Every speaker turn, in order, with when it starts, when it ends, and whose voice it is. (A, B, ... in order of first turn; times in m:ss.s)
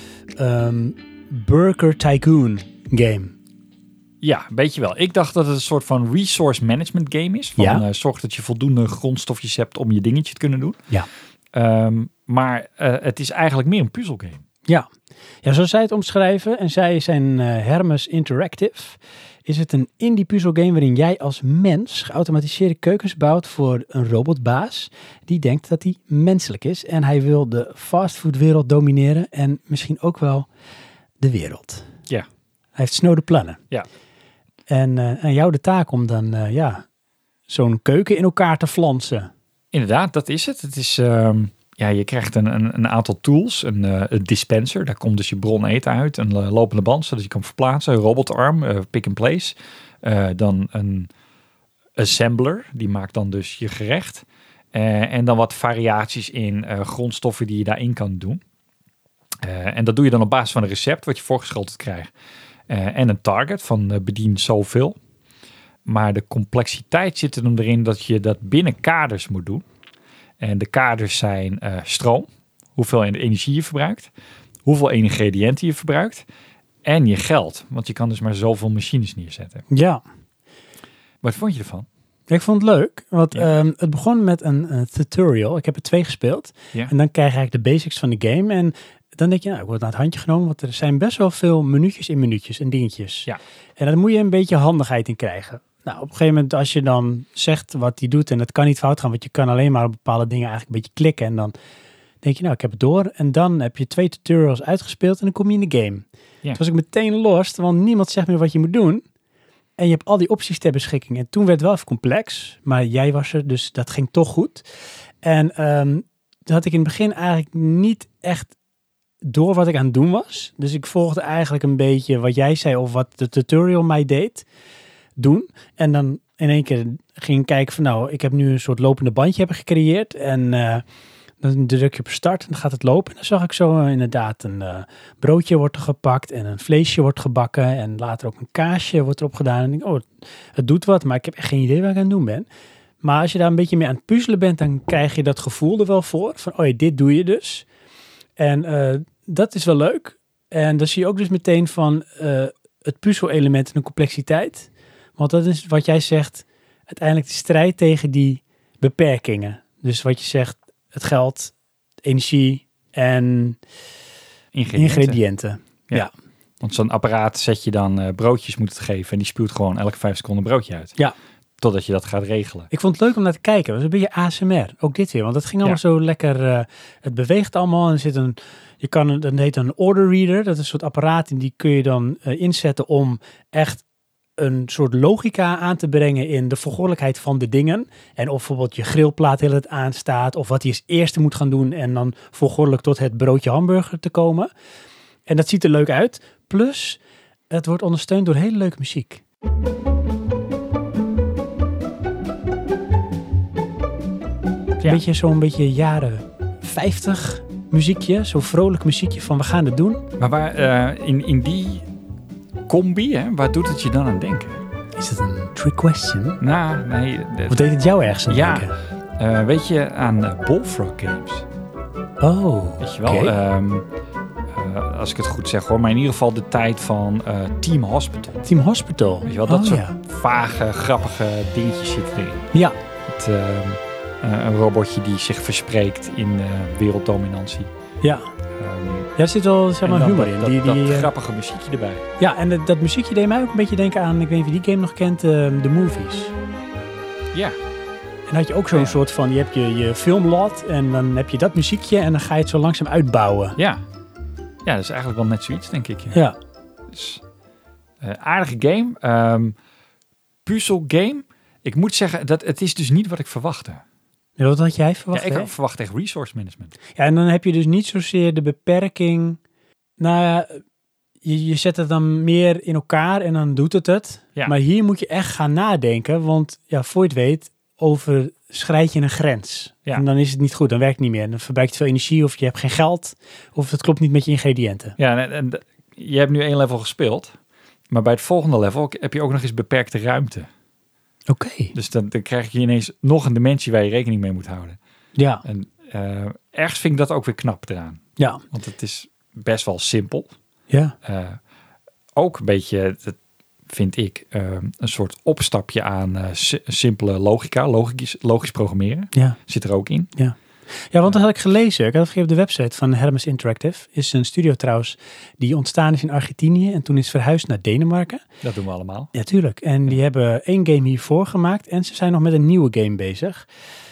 0:00.4-0:03.3 A
0:04.2-0:10.8 B
0:07.6-0:07.8 A
0:11.5-0:14.4 B
0:15.4-0:30.5 A
0:31.2-0:31.8 A
0:32.8-0:33.6 A
0:34.7-0:36.8 A
0:37.5-0:39.3 A
0:39.7-0:51.1 B
0:52.0-0:58.4 B
0:59.4-1:02.1 B
1:02.7-1:05.0 B
1:05.9-1:09.6 B
1:10.4-1:14.1 B
1:14.7-1:16.2 B
1:16.8-1:19.6 B
1:19.7-1:20.0 A
1:21.2-1:21.9 B
1:22.3-1:41.5 A
1:42.2-1:49.0 A
1:49.8-1:54.6 A
1:55.2-1:58.5 A
1:59.2-2:04.5 A
2:05.2-2:10.8 A
2:11.4-2:20.0 A
2:20.6-2:22.5 A
2:23.0-2:27.7 A
2:28.4-2:41.5 A
2:42.0-2:43.6 A
2:44.5-2:45.2 B
2:44.7-2:46.1 A
2:46.6-2:51.0 B
2:51.6-2:52.7 B
2:52.7-3:03.8 A
3:04.4-3:14.5 A
3:15.3-3:19.2 A
3:24.8-3:30.0 A
3:30.2-3:31.9 B
3:32.7-3:34.6 B
3:35.0-3:36.4 A
3:36.4-3:37.7 B
3:37.5-3:38.7 A
3:38.3-3:41.4 B
3:42.2-3:43.3 A
3:42.8-3:43.9 B
3:44.5-3:48.5 B
3:48.5-3:50.0 A
3:49.2-3:52.5 B
3:53.1-3:57.7 B
3:58.0-3:58.3 A
3:58.6-3:59.1 B
3:59.2-4:01.1 A
3:59.8-4:02.0 B
4:02.2-4:06.3 A
4:08.3-4:13.6 A
4:08.7-4:09.0 B
4:13.6-4:13.8 B
4:14.6-4:16.2 B
4:16.9-4:17.2 B
4:18.0-4:19.6 B
4:20.5-4:23.8 B
4:24.4-4:25.5 A
4:25.1-4:26.8 B
4:27.0-4:29.4 A
4:30.0-4:30.6 A
4:31.2-4:45.0 A
4:45.0-4:47.4 B
4:47.9-4:50.5 B
4:51.3-4:51.7 A
4:51.7-4:54.8 B
4:55.2-4:55.4 A
4:55.4-4:58.0 B
4:58.5-5:00.3 B
5:00.7-5:01.0 A
5:01.0-5:01.4 B
5:02.2-5:03.2 B
5:03.7-5:10.1 B
5:10.9-5:18.2 A
5:18.4-5:19.1 B
5:19.1-5:23.5 A